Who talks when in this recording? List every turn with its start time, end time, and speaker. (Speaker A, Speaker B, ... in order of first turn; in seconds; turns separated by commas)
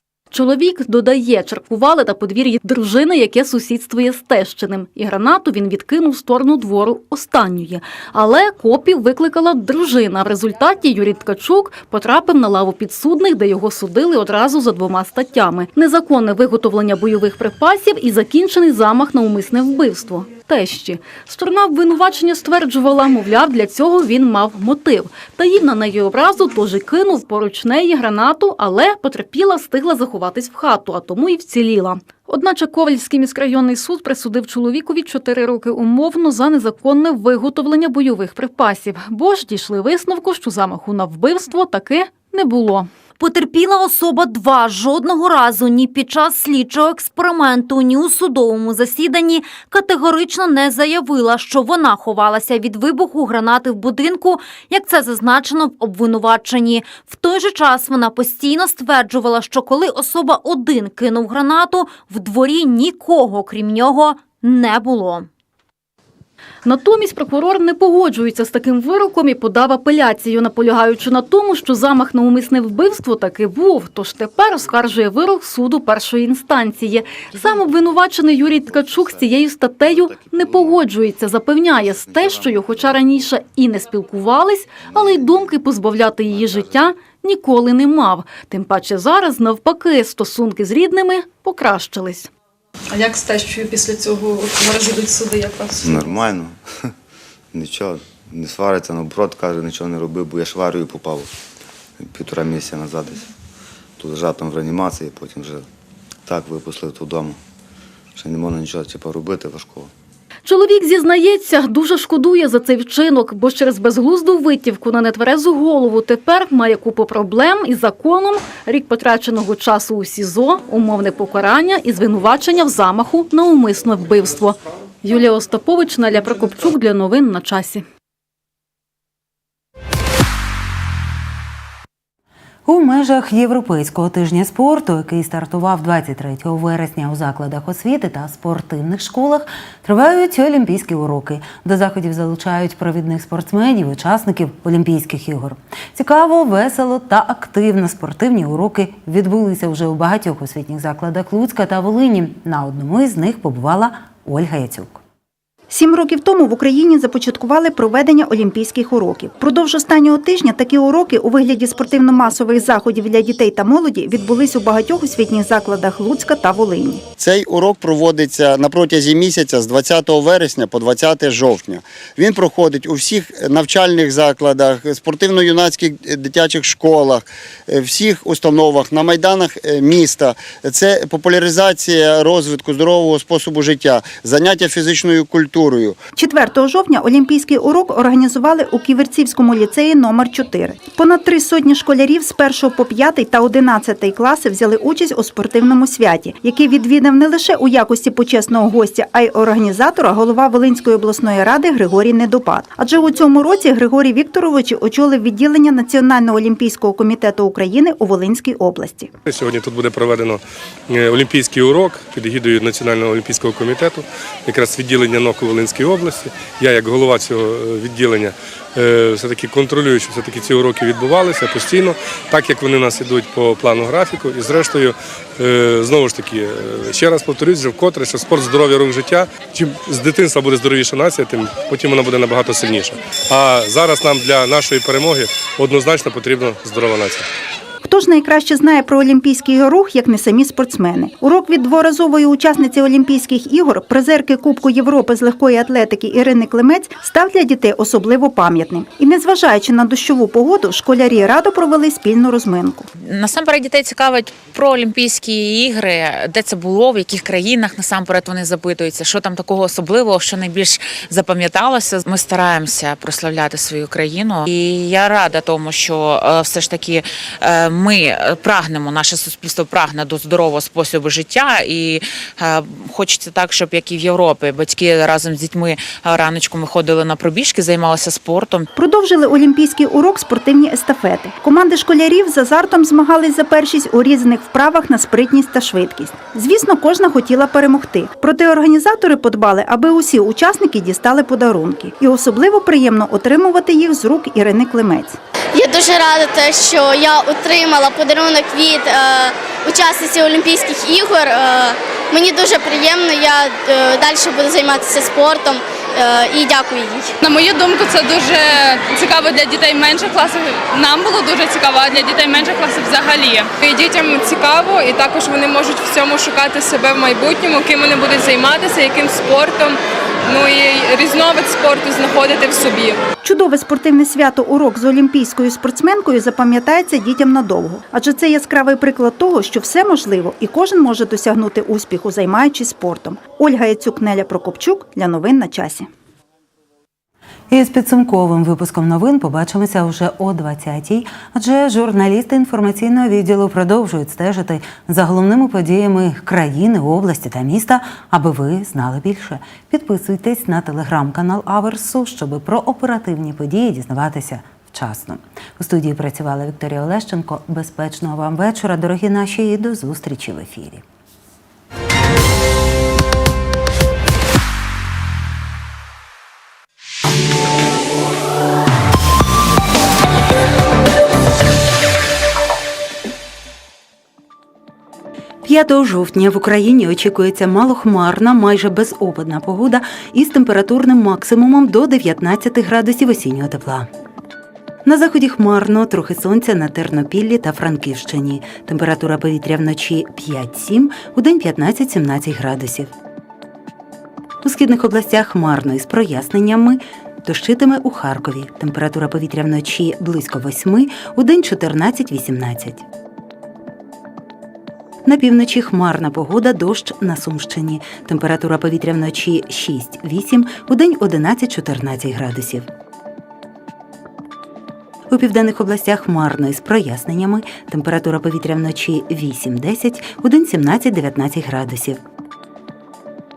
Speaker A: 0.3-42.9, Speaker B: 43.2-65.3, Speaker A: 66.6-92.3, Speaker C: 77.3-77.8, Speaker C: 78.4-79.3, Speaker C: 79.8-80.9, Speaker C: 81.7-83.2, Speaker C: 84.8-85.5, Speaker C: 86.2-86.9, Speaker D: 92.9-96.2, Speaker C: 95.7-96.9, Speaker C: 97.5-101.3, Speaker C: 102.0-103.3, Speaker C: 104.0-105.7, Speaker C: 106.2-107.4, Speaker C: 108.2-109.9, Speaker A: 110.5-127.8, Speaker E: 132.7-155.0, Speaker F: 155.7-167.0, Speaker G: 167.2-186.0, Speaker F: 186.2-209.1, Speaker H: 209.2-237.2, Speaker F: 237.8-252.9, Speaker I: 253.0-278.7, Speaker F: 278.7-295.2, Speaker J: 295.5-307.1, Speaker K: 307.2-323.0, Speaker F: 323.2-335.9, Speaker E: 337.5-360.8, Speaker E: 375.4-383.9, Speaker E: 384.8-392.9, Speaker E: 394.4-402.8, Speaker E: 405.0-412.7, Speaker E: 415.1-422.0